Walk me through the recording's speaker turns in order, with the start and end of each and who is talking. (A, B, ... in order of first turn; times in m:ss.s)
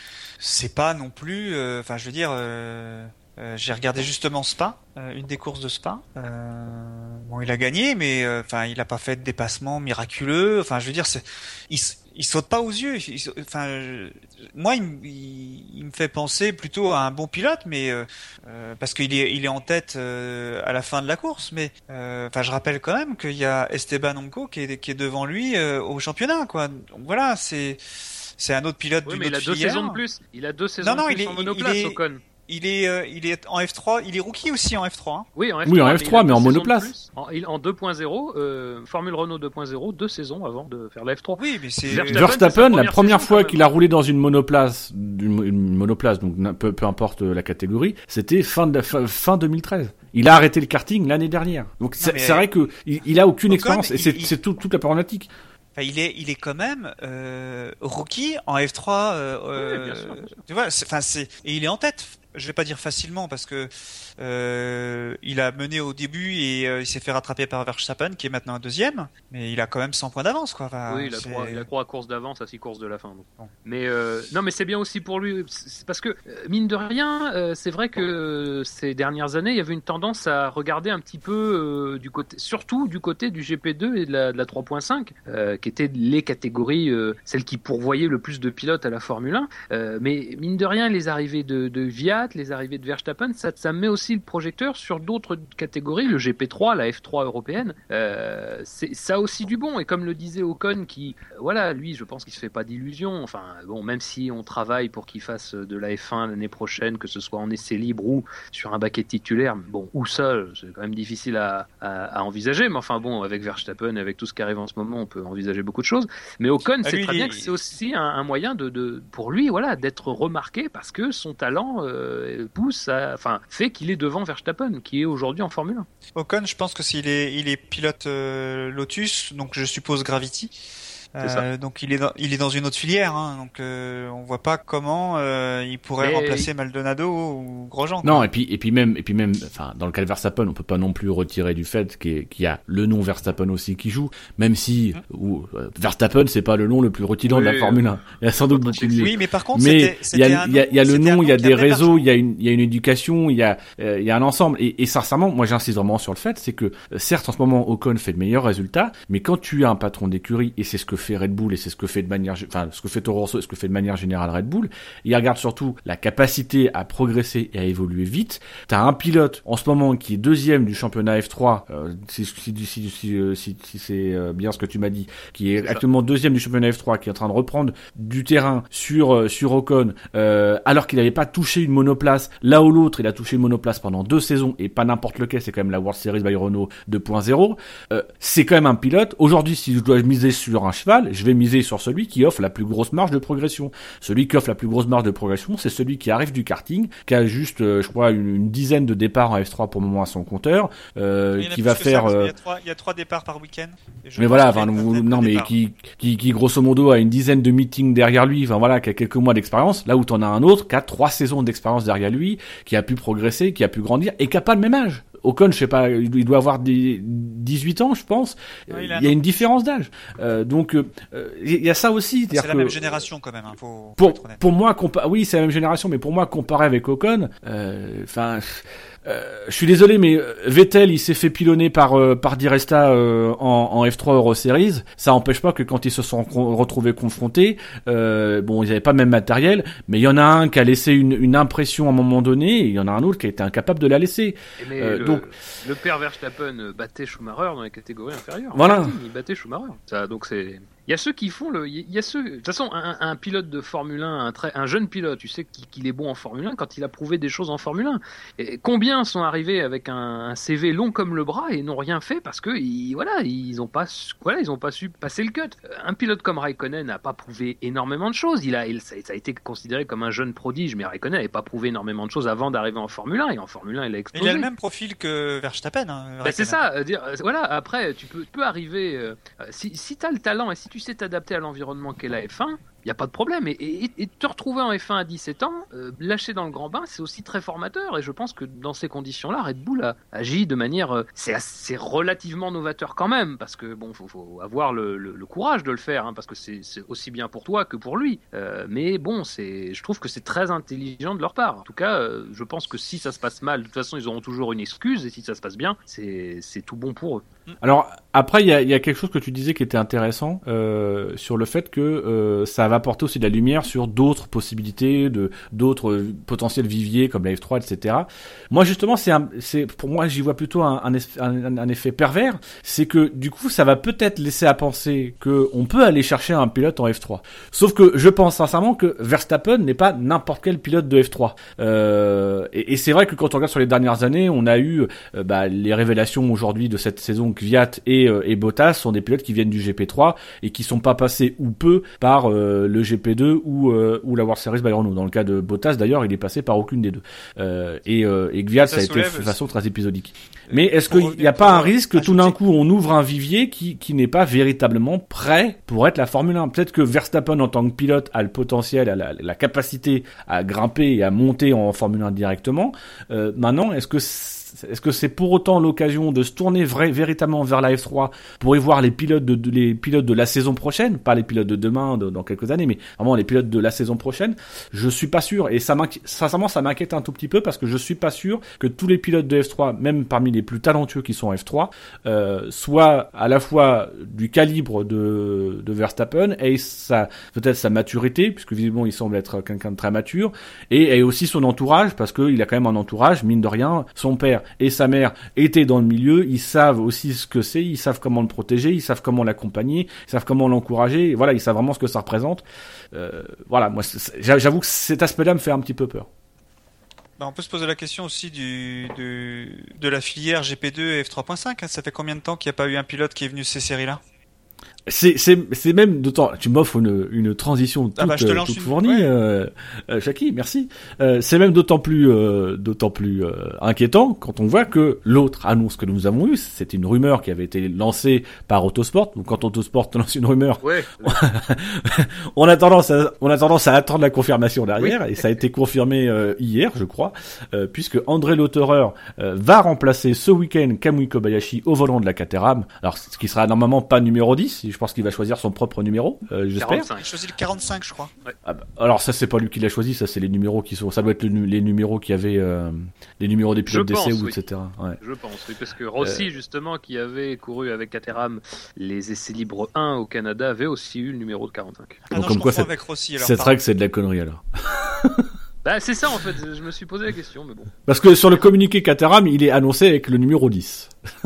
0:00.4-0:30.0 A
0:29.0-0:32.2 B
0:30.8-0:35.3 A
0:35.4-0:43.6 B
0:35.6-0:36.9 C
0:41.4-0:42.3 A
0:42.1-0:55.3 C
0:52.0-0:52.5 A
0:53.5-0:54.3 A
0:55.8-1:11.6 A
0:59.5-1:00.3 B
1:10.9-2:05.8 B
1:56.8-1:57.5 A
2:06.2-2:10.5 A
2:11.1-2:18.3 A
2:11.2-2:11.4 B
2:16.0-2:16.5 B
2:18.0-3:22.3 C
2:27.3-2:27.8 A
2:28.5-2:29.1 B
2:28.8-2:32.0 A
3:21.4-3:25.5 A
3:24.2-3:43.0 C
3:38.7-3:39.2 A
3:42.3-3:44.4 A
3:44.0-4:05.2 C
4:04.6-4:34.5 B
4:08.5-4:09.0 C
4:34.1-4:36.6 A
4:36.2-5:07.2 B
5:07.6-6:46.1 C
5:48.6-5:49.4 A
5:50.5-5:52.3 A
6:47.2-6:54.0 A
6:54.9-7:26.9 C
6:58.0-6:59.1 A
7:10.6-7:11.2 B
7:26.6-7:27.0 B
7:27.0-7:28.1 A
7:28.4-7:35.0 C
7:33.7-7:34.4 B
7:35.0-7:42.0 B
7:36.0-7:36.2 C
7:42.1-7:43.5 A
7:42.1-7:45.3 C
7:45.6-7:47.7 B
7:47.8-7:50.9 C